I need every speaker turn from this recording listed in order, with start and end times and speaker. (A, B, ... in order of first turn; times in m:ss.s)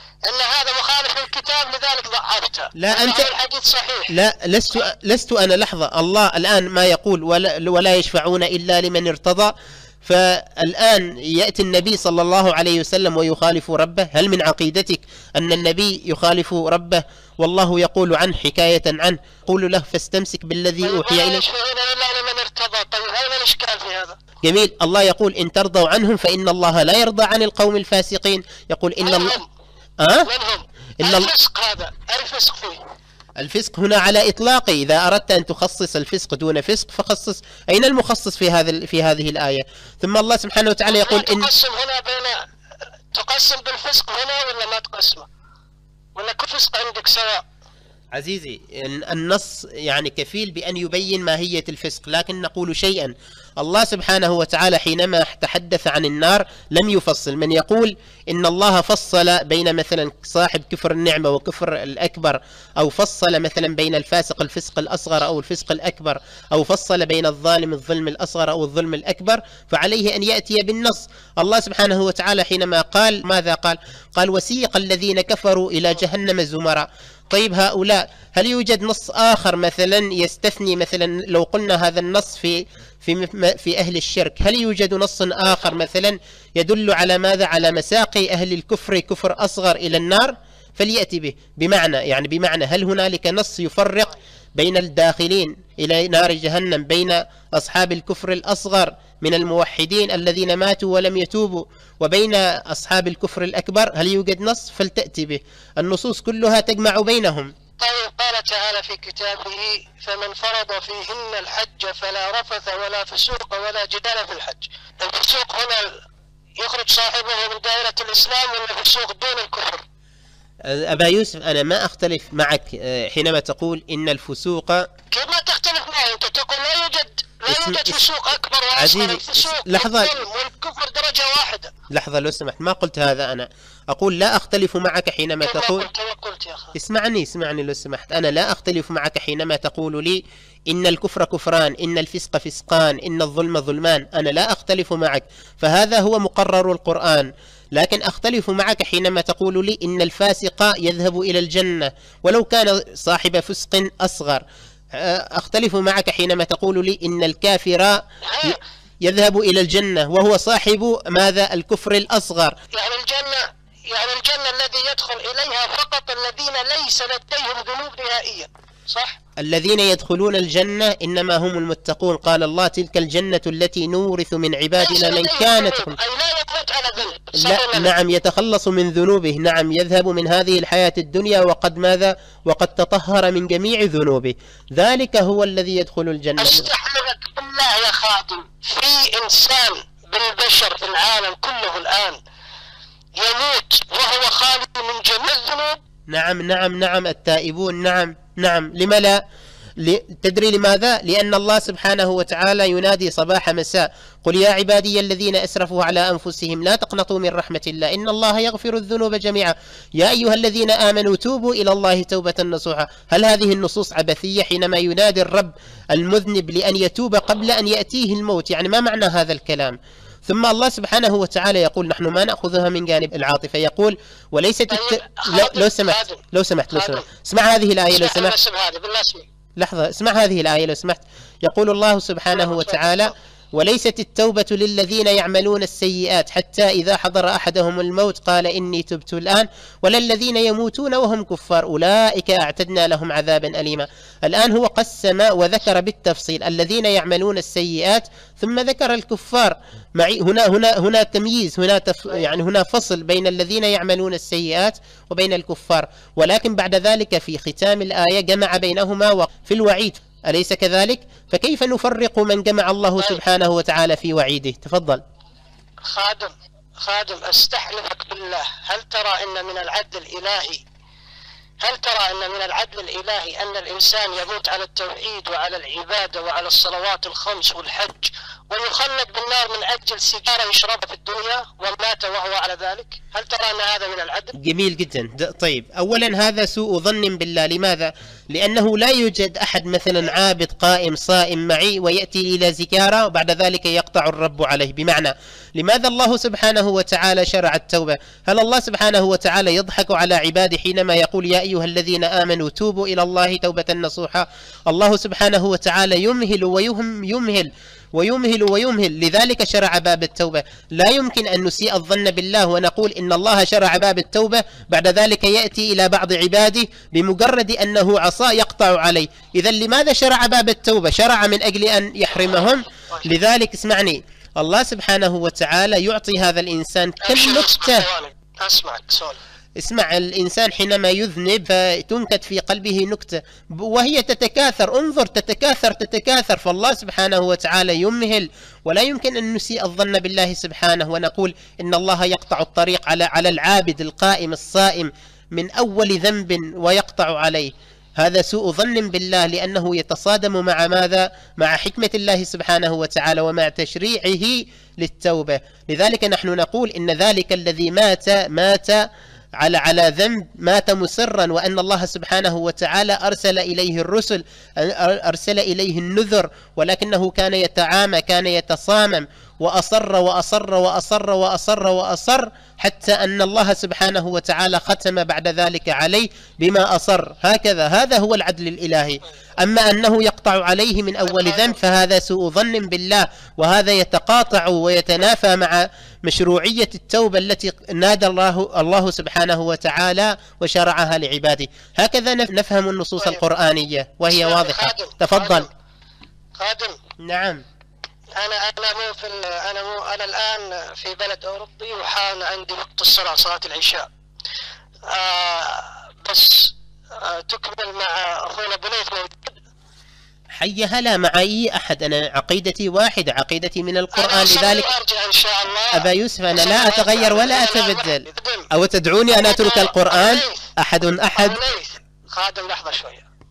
0:00.3-0:04.1 A
0:02.8-0:03.3 B
0:04.1-0:09.5 B
0:10.0-0:21.4 B
0:20.8-0:24.2 A
0:24.4-0:29.4 B
0:29.0-0:29.4 A
0:30.0-0:30.3 B
0:30.2-0:32.8 A
0:31.0-0:31.3 B
0:33.4-0:41.5 B
0:40.9-0:42.4 A
0:43.1-0:45.3 A
0:46.2-0:47.4 A
0:48.2-1:47.5 B
1:47.8-1:56.0 A
1:56.6-1:59.8 A
2:00.7-2:04.8 B
2:05.1-2:11.7 A
2:07.5-2:08.0 B
2:08.8-2:10.2 B
2:11.9-2:15.9 B
2:15.4-2:16.8 A
2:16.8-2:34.4 B
2:35.0-2:42.5 B
2:38.2-2:38.6 A
2:42.7-2:49.2 A
2:49.4-2:56.0 B
2:54.8-2:57.9 A
2:57.4-3:06.7 B
3:06.4-3:12.2 A
3:13.2-3:15.8 A
3:16.1-3:19.2 B
3:19.8-3:48.4 B
3:44.7-3:47.1 A
3:47.9-3:49.3 A
3:49.6-4:25.0 B
3:52.3-3:53.1 A
4:25.9-4:30.6 A
4:31.6-4:44.4 A
4:44.4-5:27.8 B
5:27.0-5:29.2 A
5:29.6-5:58.9 B
5:59.4-6:35.5 B
6:21.1-6:21.6 A
6:34.1-6:35.5 A
6:36.4-6:36.8 A
6:37.0-6:37.4 B
6:38.2-6:43.9 A
6:44.9-6:49.4 A
6:50.4-6:54.7 B
6:53.9-6:58.5 A
6:55.7-7:01.4 B
6:59.2-7:00.5 A
7:01.2-7:03.1 A